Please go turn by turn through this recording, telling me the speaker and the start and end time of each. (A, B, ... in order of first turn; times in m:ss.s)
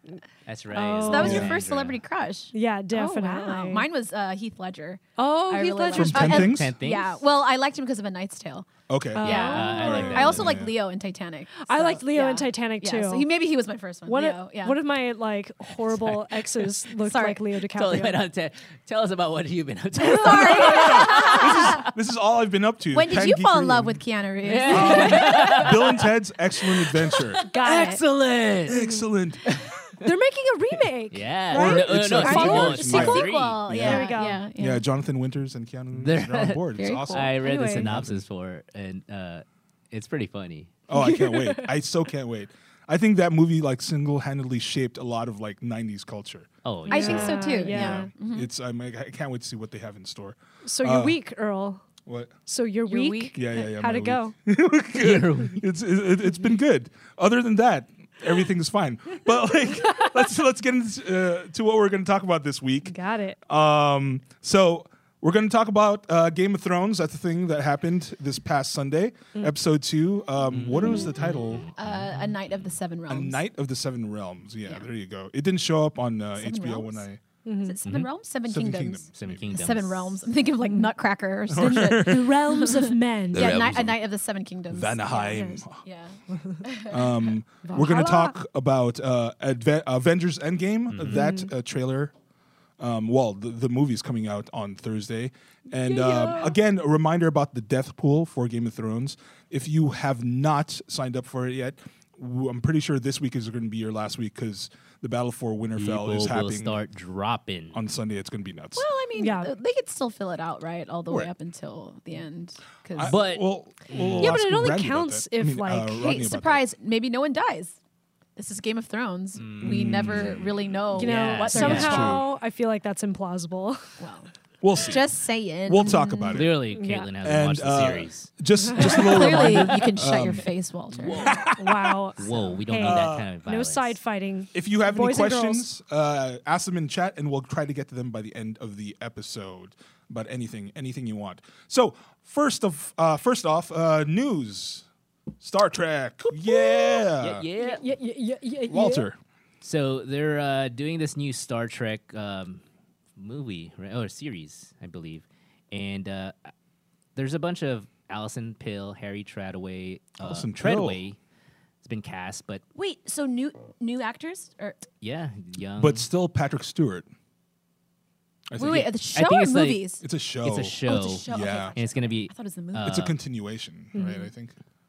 0:00.5-0:02.0 A
0:00.7-0:08.7 B
0:01.0-0:01.5 C
0:01.1-0:01.6 D
0:02.5-0:03.9 C
0:05.2-0:06.5 C
0:05.9-0:06.7 D
0:06.1-0:07.2 A
0:08.9-0:10.8 D
0:09.2-0:10.2 C
0:09.2-0:10.6 A
0:09.2-0:14.8 B
0:11.7-0:13.3 C
0:14.1-0:18.2 C
0:17.0-0:17.4 B
0:17.7-0:21.9 A
0:20.0-0:21.8 B
0:20.3-0:24.0 D
0:20.3-0:20.9 C
0:22.9-0:25.9 B
0:24.4-0:25.8 A
0:24.7-0:27.4 D
0:26.8-0:28.0 B
0:27.5-0:28.0 C
0:27.6-0:28.8 A
0:28.7-0:29.4 D
0:29.5-0:29.7 A
0:30.0-0:33.3 C
0:31.1-0:33.7 A
0:31.5-0:34.1 D
0:31.5-0:34.8 B
0:33.8-0:34.4 C
0:34.6-0:38.2 D
0:35.9-0:40.8 A
0:36.8-0:37.4 B
0:37.4-0:37.9 C
0:40.9-0:51.2 D
0:40.9-0:41.7 B
0:46.6-0:47.5 A
0:46.9-0:48.1 C
0:46.9-0:48.5 B
0:50.6-0:51.8 C
0:52.1-0:52.3 D
0:52.5-0:54.3 C
0:52.9-0:53.4 B
0:53.3-1:11.7 D
0:55.0-0:55.6 A
1:02.9-1:03.4 C
1:10.5-1:12.1 A
1:11.8-1:13.4 B
1:13.1-1:17.2 D
1:16.4-1:17.1 B
1:17.4-1:17.8 C
1:17.6-1:27.2 B
1:17.8-1:18.1 A
1:18.5-1:19.5 D
1:19.1-1:20.3 A
1:20.6-1:20.9 C
1:21.5-1:22.3 D
1:21.6-1:23.7 C
1:23.4-1:23.9 A
1:24.7-1:25.8 D
1:26.9-1:32.1 D
1:27.6-1:28.3 C
1:30.9-1:31.2 A
1:31.0-1:31.5 C
1:32.8-1:46.8 D
1:35.9-1:36.5 B
1:36.0-1:36.5 C
1:45.8-1:47.8 A
1:47.7-1:48.9 D
1:48.8-1:53.2 B
1:49.2-1:49.5 C
1:52.9-1:56.7 D
1:53.0-1:54.4 A
1:54.2-1:56.1 C
1:56.0-1:57.8 B
1:58.4-2:02.2 B
1:59.4-2:02.1 A
1:59.6-2:00.5 D
2:01.0-2:03.8 C
2:01.6-2:02.2 D
2:04.0-2:06.5 B
2:04.6-2:05.0 D
2:05.7-2:06.6 D
2:06.3-2:08.3 A
2:06.7-2:07.1 C
2:07.2-2:10.5 D
2:08.6-2:09.5 C
2:08.8-2:11.4 B
2:10.9-2:11.5 A
2:11.2-2:12.0 D
2:11.5-2:15.7 C
2:12.2-2:14.0 A
2:12.8-2:13.3 D
2:14.5-2:24.9 D
2:25.4-2:27.5 D
2:26.2-2:29.1 C
2:27.2-2:27.8 A
2:28.7-2:29.2 D
2:29.6-2:32.6 A
2:33.2-2:36.5 A
2:37.2-2:41.2 A
2:40.2-2:41.0 D
2:41.8-2:42.6 A
2:42.8-2:44.8 B
2:45.0-2:46.1 A
2:45.8-2:47.1 D
2:48.5-2:48.9 D
2:48.6-2:50.0 B
2:48.7-2:49.9 A
2:50.0-2:51.8 D
2:50.4-2:53.2 A
2:50.9-2:53.1 B
2:52.8-2:54.5 D
2:53.9-2:54.3 C